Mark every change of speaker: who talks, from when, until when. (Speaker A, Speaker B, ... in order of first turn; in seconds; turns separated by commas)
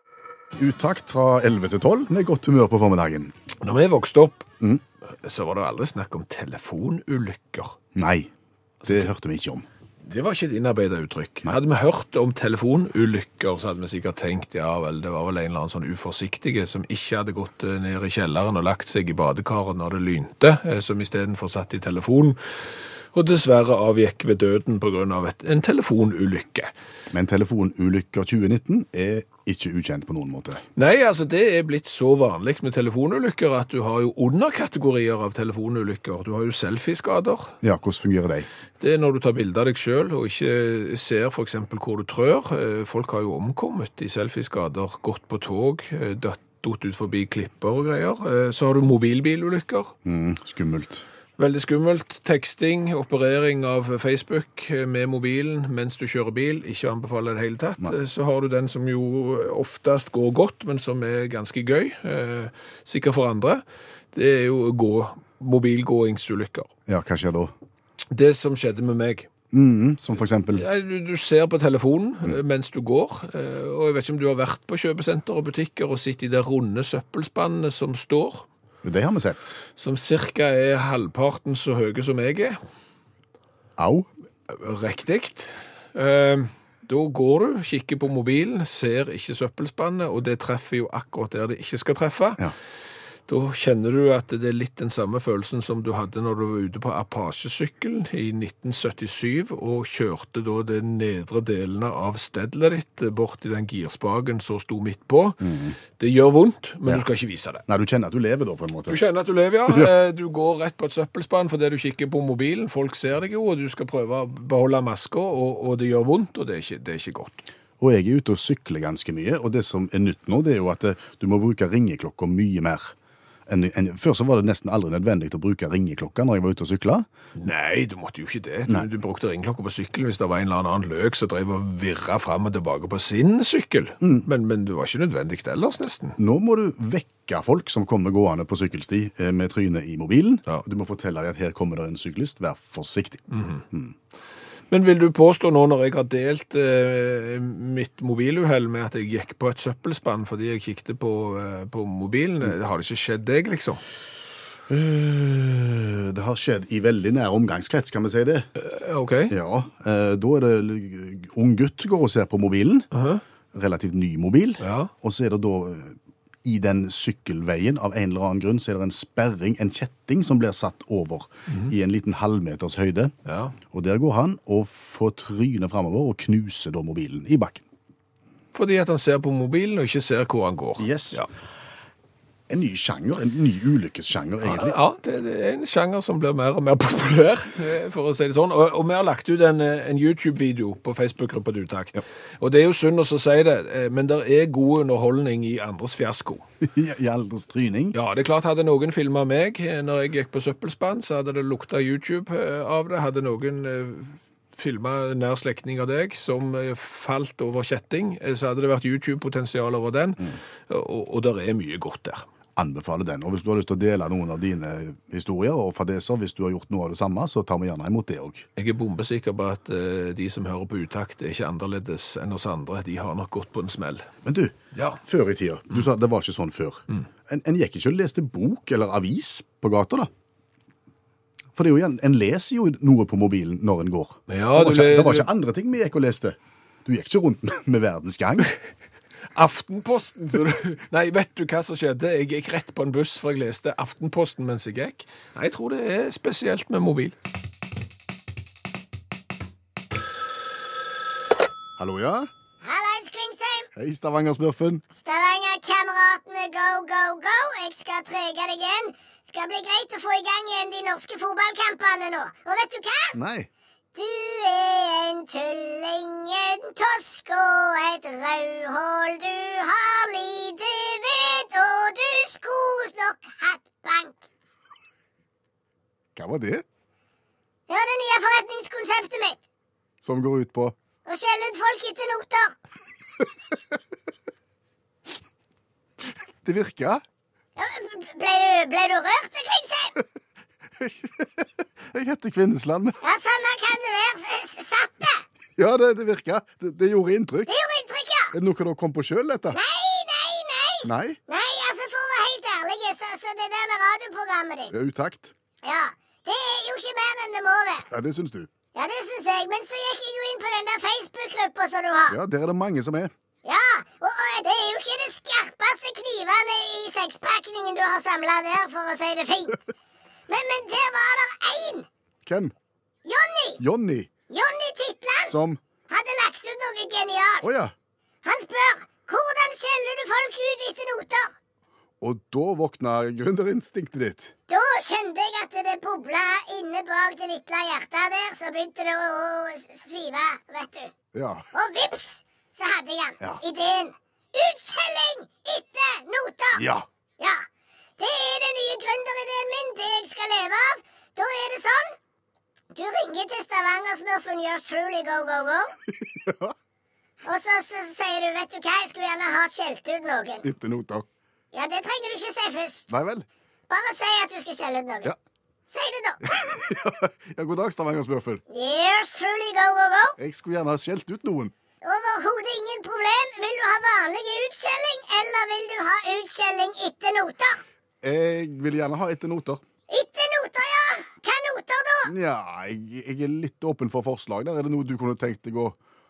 Speaker A: 0.6-3.3, Speaker B: 3.6-4.5, Speaker B: 5.1-7.8, Speaker A: 7.9-8.3, Speaker B: 8.8-9.1, Speaker A: 8.8-9.6, Speaker B: 10.0-22.4, Speaker B: 23.1-26.7, Speaker A: 27.1-30.6, Speaker B: 30.8-37.5, Speaker A: 37.6-38.5, Speaker B: 38.8-49.9, Speaker A: 50.0-51.0, Speaker B: 51.4-66.7, Speaker A: 66.9-67.5, Speaker B: 68.1-69.3, Speaker A: 69.5-70.7, Speaker B: 70.5-78.5, Speaker A: 78.8-79.7, Speaker B: 79.8-82.6, Speaker A: 83.8-84.1, Speaker B: 84.5-92.4, Speaker B: 93.3-107.6, Speaker A: 105.4-105.8, Speaker A: 107.7-109.0, Speaker B: 108.9-117.5, Speaker A: 117.8-122.9, Speaker A: 123.5-127.1, Speaker B: 127.3-136.2, Speaker A: 134.0-134.3, Speaker A: 136.2-143.9, Speaker B: 143.3-143.6, Speaker B: 144.7-153.8, Speaker A: 154.7-158.5, Speaker B: 158.6-159.3, Speaker A: 159.3-162.9, Speaker B: 162.9-163.2, Speaker A: 163.5-173.1, Speaker B: 164.6-164.9, Speaker B: 173.2-173.5, Speaker A: 173.7-177.6, Speaker B: 178.5-181.3, Speaker A: 180.8-181.2, Speaker A: 182.5-184.8, Speaker B: 184.4-196.4, Speaker A: 196.6-197.9, Speaker B: 197.9-212.2, Speaker A: 212.6-218.4, Speaker B: 218.6-224.1, Speaker A: 224.2-230.1, Speaker B: 224.7-225.0, Speaker A: 231.5-238.5, Speaker B: 234.3-235.3, Speaker B: 239.3-247.1, Speaker A: 251.8-252.3, Speaker C: 252.6-253.7, Speaker A: 253.7-254.8, Speaker C: 254.9-263.1, Speaker A: 263.1-263.5, Speaker C: 263.9-274.2, Speaker A: 276.1-276.6, Speaker C: 277.7-279.4, Speaker A: 280.0-280.8, Speaker C: 281.1-282.5, Speaker A: 286.4-287.0, Speaker C: 287.6-289.9, Speaker A: 290.8-293.0, Speaker C: 293.0-295.2, Speaker A: 295.6-297.5, Speaker C: 297.5-298.3, Speaker A: 298.3-299.6, Speaker C: 299.5-304.7, Speaker A: 300.8-301.2, Speaker A: 304.7-305.3, Speaker C: 305.6-307.9, Speaker A: 307.9-308.5, Speaker C: 308.7-312.2, Speaker A: 312.1-313.1, Speaker C: 313.4-319.6, Speaker C: 320.3-321.9, Speaker A: 322.2-322.5, Speaker C: 323.0-323.6, Speaker A: 323.6-324.1, Speaker C: 324.3-325.3, Speaker A: 325.2-325.6, Speaker C: 325.9-327.5, Speaker A: 327.4-327.7, Speaker C: 328.2-331.3, Speaker A: 332.0-334.3, Speaker C: 334.5-340.9, Speaker A: 341.1-341.4, Speaker C: 341.5-346.7, Speaker A: 346.5-346.9, Speaker C: 347.2-347.4, Speaker C: 348.0-352.0, Speaker C: 352.7-355.7, Speaker A: 355.9-356.5, Speaker C: 357.2-360.5, Speaker A: 360.4-361.1, Speaker C: 361.5-362.9, Speaker A: 362.9-363.2, Speaker C: 363.7-365.1, Speaker C: 365.7-366.2, Speaker A: 366.2-368.4, Speaker C: 368.5-370.2, Speaker A: 370.2-371.5, Speaker C: 371.8-377.6, Speaker A: 378.0-379.6, Speaker C: 379.9-382.1, Speaker A: 382.0-385.8